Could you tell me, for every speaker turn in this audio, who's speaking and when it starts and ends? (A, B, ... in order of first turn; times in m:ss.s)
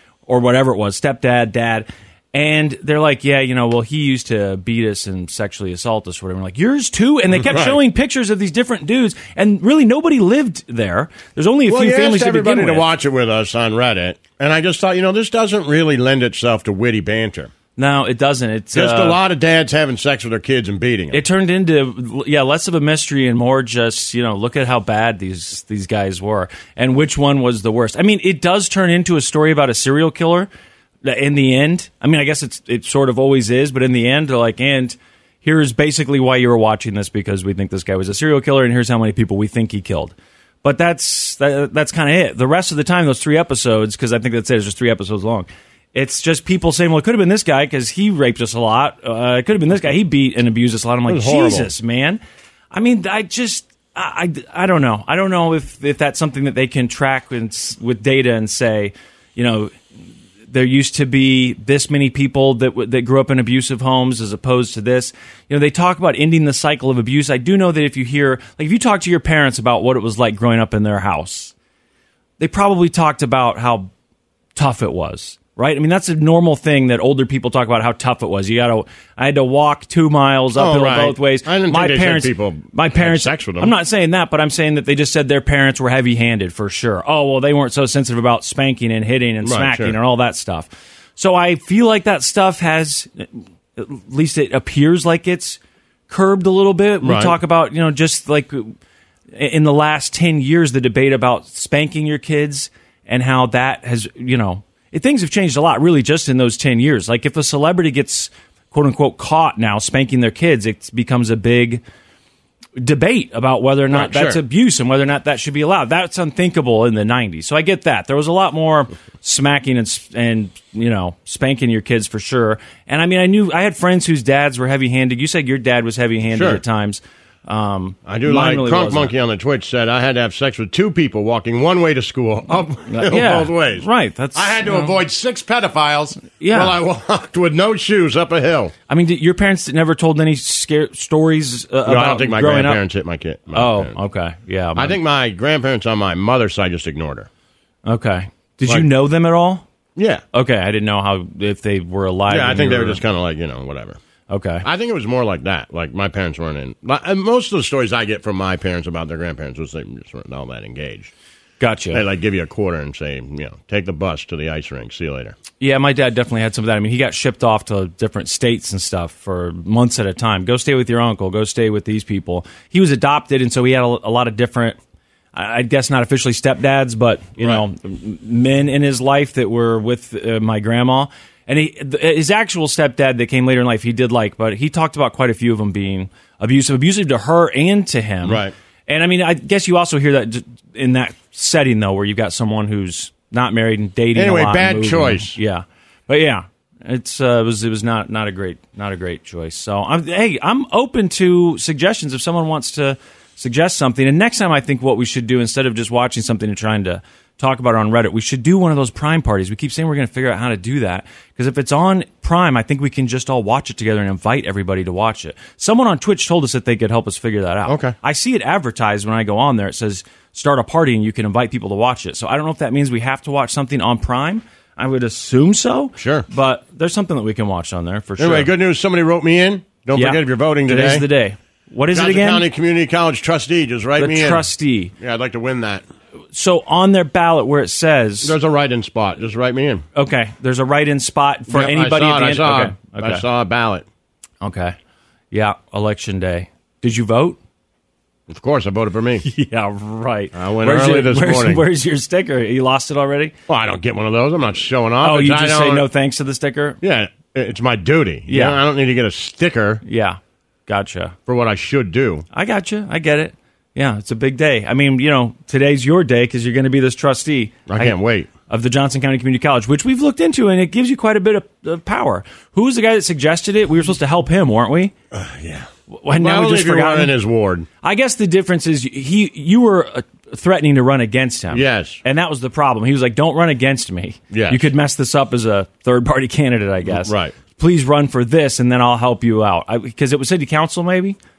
0:00.3-0:12.9 A
0:07.4-0:07.8 B
0:11.7-0:17.5 B
0:17.8-0:19.2 A
0:18.7-0:21.2 B
0:21.1-0:30.5 A
0:31.0-0:52.2 A
0:51.1-0:51.7 B
0:52.7-0:59.7 A
1:00.5-1:11.5 A
1:12.4-1:13.9 A
1:14.6-1:38.7 A
1:20.6-1:23.7 B
1:29.4-1:30.0 B
1:37.0-1:37.4 B
1:39.3-1:51.8 A
1:52.8-2:09.1 A
1:53.9-1:54.4 B
2:06.3-2:06.6 B
2:08.0-2:18.7 B
2:12.9-2:15.0 A
2:16.4-2:16.8 A
2:18.9-2:22.8 A
2:21.9-2:24.0 B
2:23.5-2:25.0 A
2:24.8-2:27.3 B
2:27.8-2:29.6 A
2:30.0-2:30.2 B
2:30.3-2:33.0 A
2:32.3-2:34.0 B
2:34.3-2:34.6 A
2:34.6-2:41.1 B
2:41.6-2:42.0 A
2:41.9-2:45.4 B
2:45.6-2:54.8 A
2:55.3-3:48.5 A
2:57.4-2:57.6 B
3:08.2-3:08.5 B
3:14.1-3:15.3 B
3:37.7-3:37.9 B
3:46.0-3:46.2 B
3:48.2-3:51.0 B
3:49.9-3:52.4 A
3:51.9-3:54.5 B
3:54.0-3:54.9 A
3:55.0-3:55.8 B
3:56.3-3:58.3 A
3:58.2-3:59.8 B
3:59.9-4:03.2 A
4:01.5-4:03.8 B
4:04.4-4:04.8 A
4:05.3-4:07.4 A
4:08.3-4:09.2 B
4:09.2-4:13.3 A
4:10.3-4:11.6 B
4:13.5-4:15.8 B
4:15.0-4:16.8 A
4:16.8-4:19.8 B
4:18.3-4:18.6 A
4:19.8-4:21.2 A
4:21.3-4:22.2 B
4:22.3-4:28.0 A
4:27.7-4:28.3 B
4:28.5-4:34.9 A
4:35.1-4:35.7 B
4:35.9-4:37.1 A
4:36.2-4:37.7 B
4:37.8-4:51.2 A
4:41.5-4:42.0 B
4:44.3-4:44.6 B
4:46.8-4:47.3 B